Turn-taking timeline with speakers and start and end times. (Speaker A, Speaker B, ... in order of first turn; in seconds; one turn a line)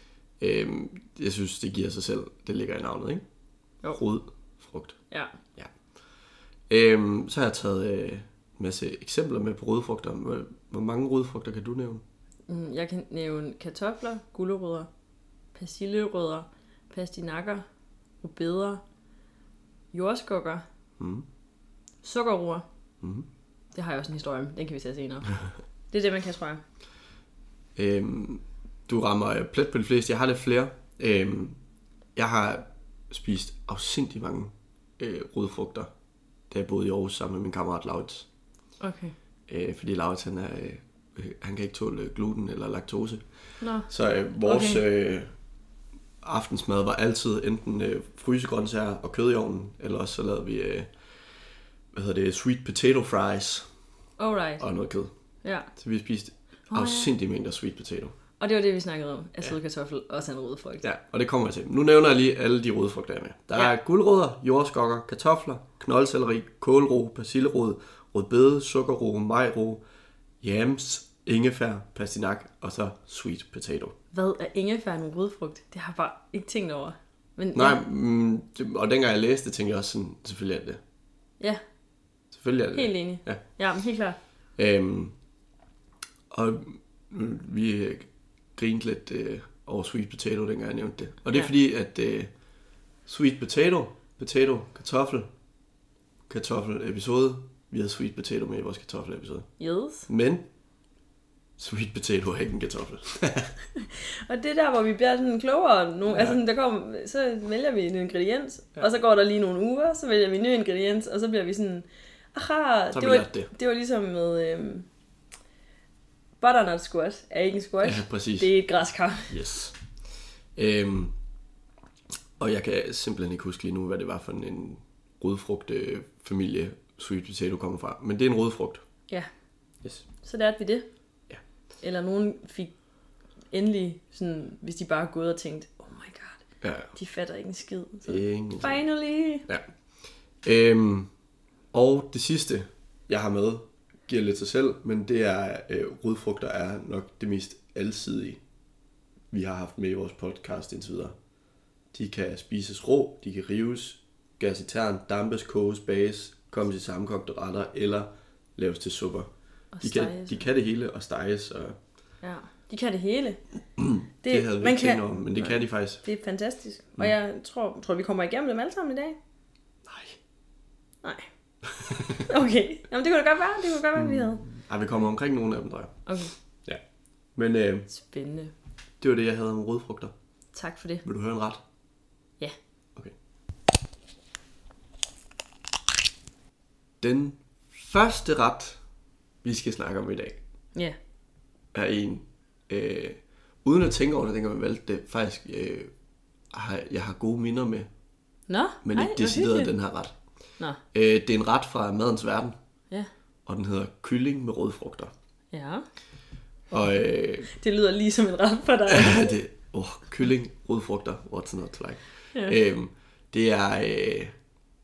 Speaker A: 0.4-3.2
Speaker A: 3.9-5.0
Speaker A: 6.7-12.0
Speaker B: 12.5-14.9
Speaker B: 15.5-17.6
Speaker B: 18.2-18.8
Speaker B: 19.9-20.6
Speaker A: 21.0-21.2
Speaker B: 22.0-22.6
Speaker A: 23.0-23.3
Speaker B: 23.7-25.3
Speaker B: 25.9-26.6
Speaker A: 27.8-31.6
Speaker A: 32.1-35.9
Speaker A: 36.5-38.3
Speaker B: 38.8-39.1
Speaker A: 39.5-43.3
Speaker B: 43.6-43.9
Speaker A: 43.9-45.3
Speaker B: 44.4-44.8
Speaker A: 46.2-50.9
Speaker A: 51.9-53.7
Speaker B: 54.2-54.6
Speaker A: 54.6-55.1
Speaker B: 55.4-55.7
Speaker A: 55.7-58.1
Speaker B: 56.7-57.1
Speaker B: 58.4-60.8
Speaker A: 60.8-69.8
Speaker A: 70.4-73.9
Speaker B: 74.1-77.8
Speaker A: 77.5-80.8
Speaker A: 82.3-83.4
Speaker B: 82.7-84.2
Speaker A: 84.6-85.1
Speaker A: 86.3-92.3
Speaker A: 93.0-95.3
Speaker A: 96.3-99.5
Speaker B: 99.6-100.1
Speaker A: 100.1-100.4
Speaker A: 101.6-103.5
Speaker B: 103.8-114.9
Speaker A: 106.1-106.4
Speaker A: 112.9-113.5
Speaker B: 116.4-119.4
Speaker A: 117.8-118.5
Speaker A: 119.3-119.7
Speaker A: 120.5-121.1
Speaker A: 122.4-128.8
Speaker B: 130.2-130.9
Speaker B: 131.8-132.7
Speaker B: 133.5-139.5
Speaker A: 136.6-136.9
Speaker A: 138.1-138.8
Speaker A: 140.4-141.1
Speaker A: 141.7-148.4
Speaker A: 149.3-151.2
Speaker A: 151.9-159.3
Speaker B: 159.7-160.4
Speaker A: 159.8-161.8
Speaker B: 162.2-163.4
Speaker A: 163.8-166.0
Speaker B: 164.2-169.2
Speaker A: 169.9-170.2
Speaker A: 171.8-172.2
Speaker B: 172.2-174.4
Speaker A: 173.9-176.0
Speaker B: 176.1-176.3
Speaker A: 177.3-177.9
Speaker B: 177.9-178.5
Speaker A: 179.0-180.1
Speaker B: 180.5-181.0
Speaker A: 181.0-181.6
Speaker A: 187.0-188.8
Speaker A: 189.4-190.4
Speaker A: 191.7-195.9
Speaker A: 196.5-197.9
Speaker B: 198.5-199.7
Speaker A: 198.8-200.1
Speaker A: 200.9-202.5
Speaker A: 203.4-205.1
Speaker B: 205.5-205.8
Speaker A: 206.7-207.5
Speaker B: 207.5-209.4
Speaker A: 208.9-214.3